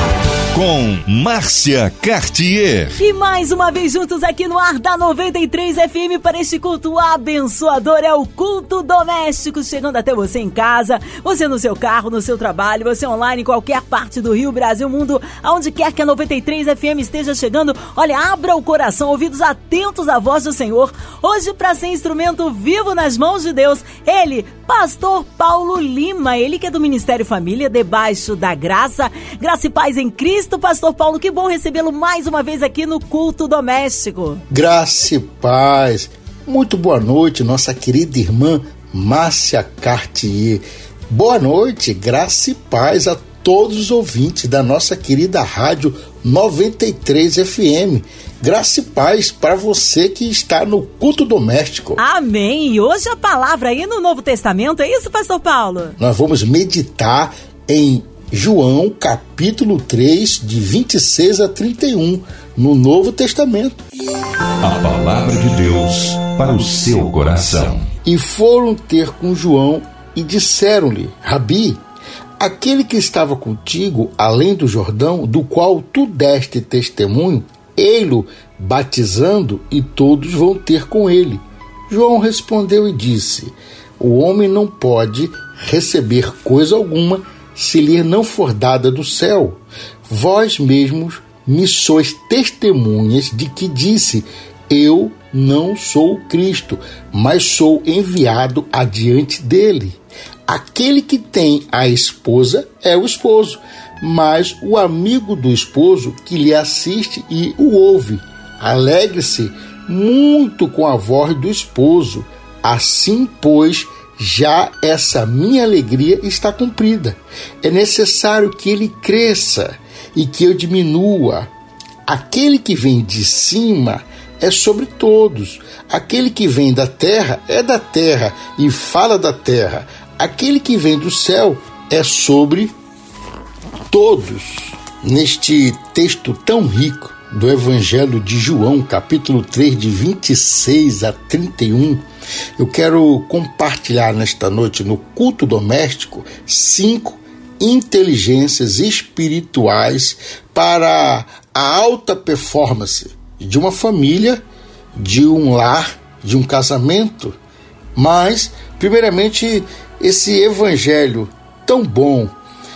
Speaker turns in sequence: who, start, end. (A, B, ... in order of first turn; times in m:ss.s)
0:00.5-0:03.0 A
0:03.0-0:34.4 B
0:34.5-0:52.0 C
0:52.0-0:56.0 B
0:56.0-1:03.8 C
1:04.6-1:07.9 A
1:08.0-1:11.8 C
1:12.4-2:01.5 C
2:02.1-2:12.7 C
2:13.9-2:22.0 C
2:22.6-2:34.4 C
2:35.0-2:37.4 C
2:38.0-2:42.3 C